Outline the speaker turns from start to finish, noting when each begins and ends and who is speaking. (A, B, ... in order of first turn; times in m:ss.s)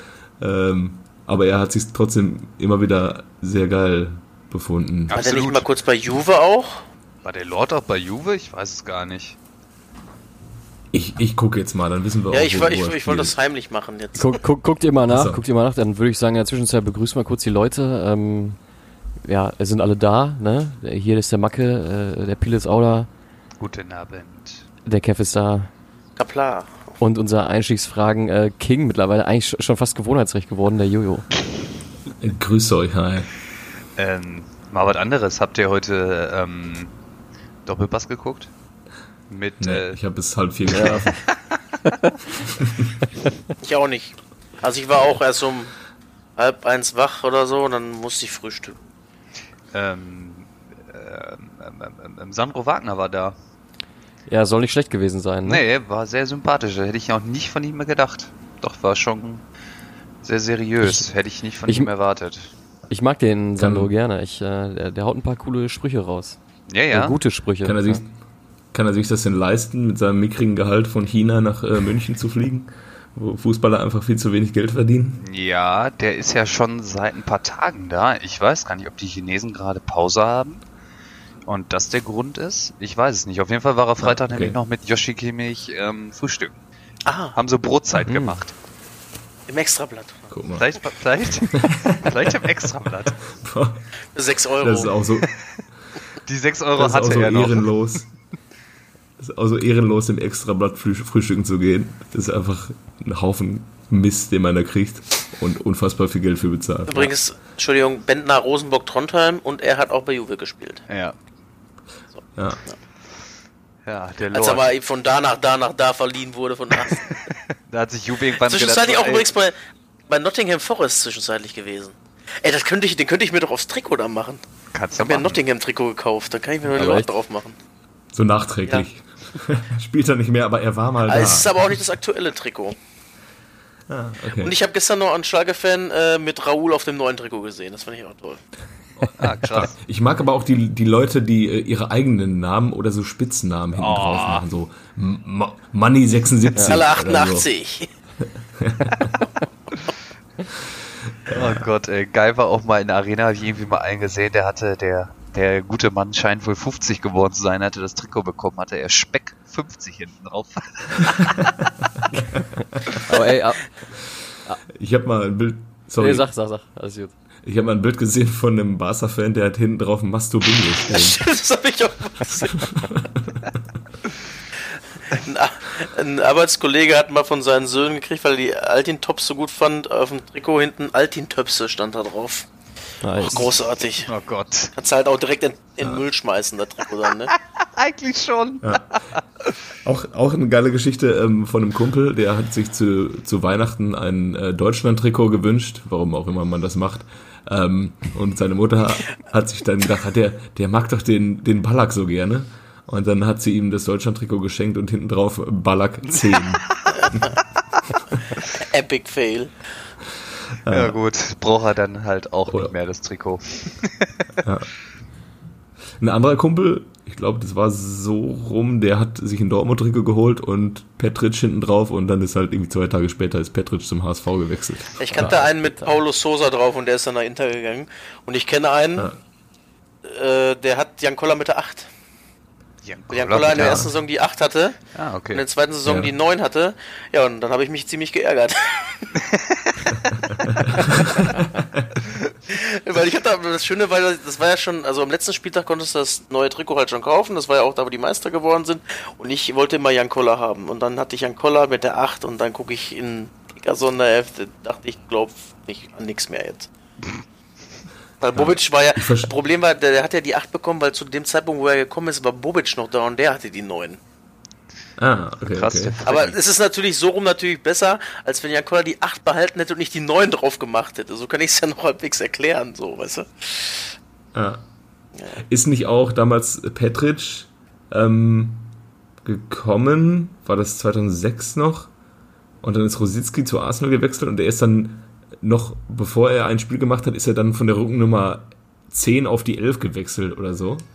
0:00.4-0:05.2 A
0:05.1-0:05.7 B
0:05.1-0:06.8 C
0:07.2-0:09.4 B
0:10.9-0:13.3 A
0:12.3-0:14.4 C
0:14.2-0:18.6 D
0:15.1-0:15.4 A
0:19.2-0:23.1 D
0:23.6-0:24.6 B
0:24.9-0:25.7 D
0:26.2-0:27.0 C
0:27.0-0:31.3 D
0:32.2-0:33.3 A
0:34.0-0:36.9 B
0:37.7-0:38.5 B
0:39.3-0:40.0 B
0:39.6-0:41.2 A
0:40.7-0:41.3 B
0:40.7-0:41.0 D
0:43.6-0:45.8 C
0:46.4-0:48.8 C
0:49.7-0:53.4 B
0:54.3-0:55.6 D
0:55.4-0:59.4 B
1:00.2-1:02.5 B
1:02.9-1:06.4 D
1:03.6-1:03.9 A
1:06.7-1:07.2 B
1:06.9-1:08.0 D
1:07.6-1:08.2 A
1:08.7-1:15.2 A
1:15.2-1:20.6 B
1:21.5-1:26.6 B
1:24.0-1:24.6 A
1:27.1-1:27.4 C
1:27.3-1:28.5 B
1:28.1-1:28.4 D
1:29.5-1:30.3 C
1:30.3-1:30.7 A
1:30.6-1:33.2 B
1:31.5-1:32.4 A
1:33.3-1:33.9 A
1:34.1-1:35.0 C
1:34.6-1:35.3 A
1:35.2-1:35.6 B
1:36.3-1:38.0 B
1:36.8-1:38.0 A
1:39.2-1:47.1 A
1:46.9-1:50.8 C
1:50.9-1:51.2 B
1:52.2-1:52.8 C
1:52.4-1:52.6 A
1:53.9-1:54.7 B
1:54.3-1:57.1 C
1:56.8-1:59.3 B
1:58.4-1:59.6 C
2:00.1-2:04.4 C
2:04.7-2:05.4 B
2:05.0-2:07.6 C
2:06.7-2:07.1 D
2:08.1-2:11.5 A
2:11.1-2:12.8 C
2:13.9-2:14.6 A
2:14.4-2:18.4 C
2:19.1-2:19.8 B
2:19.5-2:27.5 A
2:23.7-2:24.4 B
2:26.6-2:27.9 C
2:28.4-2:29.2 A
2:31.3-2:31.7 A
2:31.3-2:41.5 B
2:42.4-2:42.8 A
2:43.1-2:43.7 D
2:44.7-2:46.3 A
2:46.0-2:47.1 D
2:47.4-2:51.2 A
2:50.9-2:52.9 C
2:52.6-2:53.5 A
2:55.0-3:02.5 C
3:03.0-3:03.5 D
3:03.2-3:04.1 C
3:04.0-3:04.7 B
3:04.8-3:07.3 C
3:07.3-3:09.2 B
3:09.8-3:27.2 A
3:26.1-3:27.2 B
3:28.5-3:29.6 C
3:30.6-3:31.0 A
3:30.7-3:34.3 B
3:32.5-3:32.7 A
3:34.4-3:34.7 A
3:36.0-3:45.4 A
3:45.0-3:49.1 C
3:45.2-3:45.9 D
3:50.0-3:51.9 C
3:52.8-3:53.9 B
3:53.1-3:54.8 C
3:53.5-3:53.9 A
3:55.0-3:55.4 B
3:55.3-3:59.2 C
3:55.8-3:56.1 A
4:00.1-4:01.9 A
4:00.6-4:01.4 C
4:02.5-4:16.7 C
4:18.2-4:24.0 C
4:18.4-4:19.3 A
4:25.0-4:26.0 A
4:25.5-4:26.4 B
4:26.1-4:33.9 C
4:34.3-4:34.6 A
4:35.2-4:35.4 C
4:35.5-4:38.7 A
4:39.2-4:41.9 A
4:42.6-4:50.8 A